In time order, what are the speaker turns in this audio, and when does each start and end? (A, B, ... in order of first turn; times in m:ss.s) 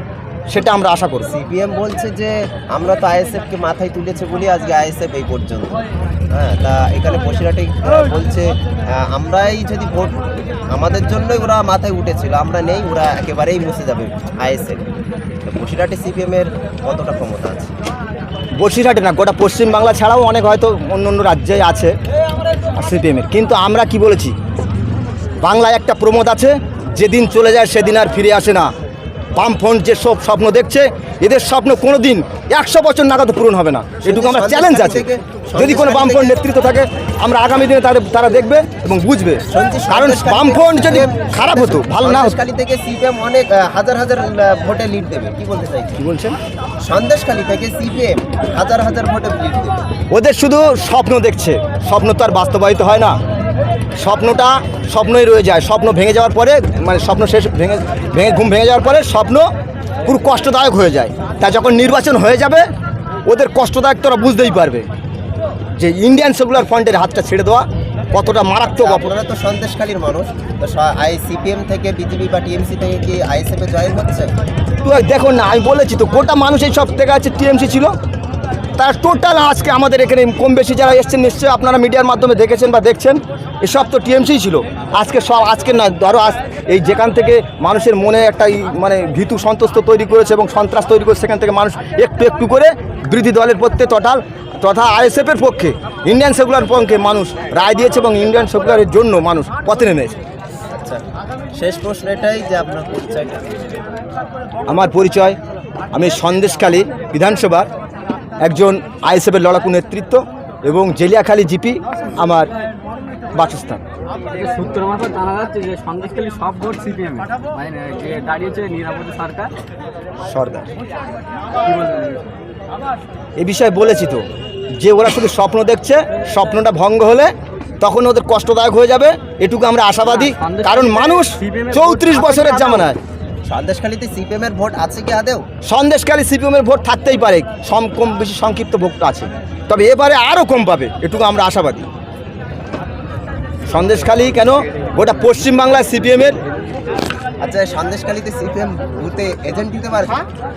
0:00.5-0:01.3 A
0:01.3-0:10.2 B
0:10.7-0:14.8 B
0:15.4-0:17.7 B
0:18.6-0:21.9 A
0:22.8-0:24.3 A
0:25.4-0:28.7 A
0:29.4-0:35.0 A
0:34.0-0:36.4 B
0:35.6-0:42.3 A
0:39.5-0:46.0 B
0:46.0-0:46.4 A
0:46.8-0:49.8 B
0:50.1-0:53.2 A
0:54.0-0:59.5 A
1:00.0-1:02.7 A
1:03.3-1:04.8 A
1:05.8-1:09.1 A
1:08.7-1:14.3 B
1:14.8-1:17.9 A
1:18.8-1:40.2 A
1:40.7-1:43.6 B
1:44.7-1:45.4 A
1:45.9-1:47.7 A
1:48.4-1:52.5 A
1:53.3-1:53.8 A
1:54.3-1:59.5 C
2:00.3-2:00.7 A
2:01.6-2:02.2 C
2:03.4-2:13.0 A
2:10.2-2:12.9 C
2:13.4-2:15.4 B
2:15.6-2:21.9 A
2:23.7-2:26.4 A
2:27.4-2:30.2 B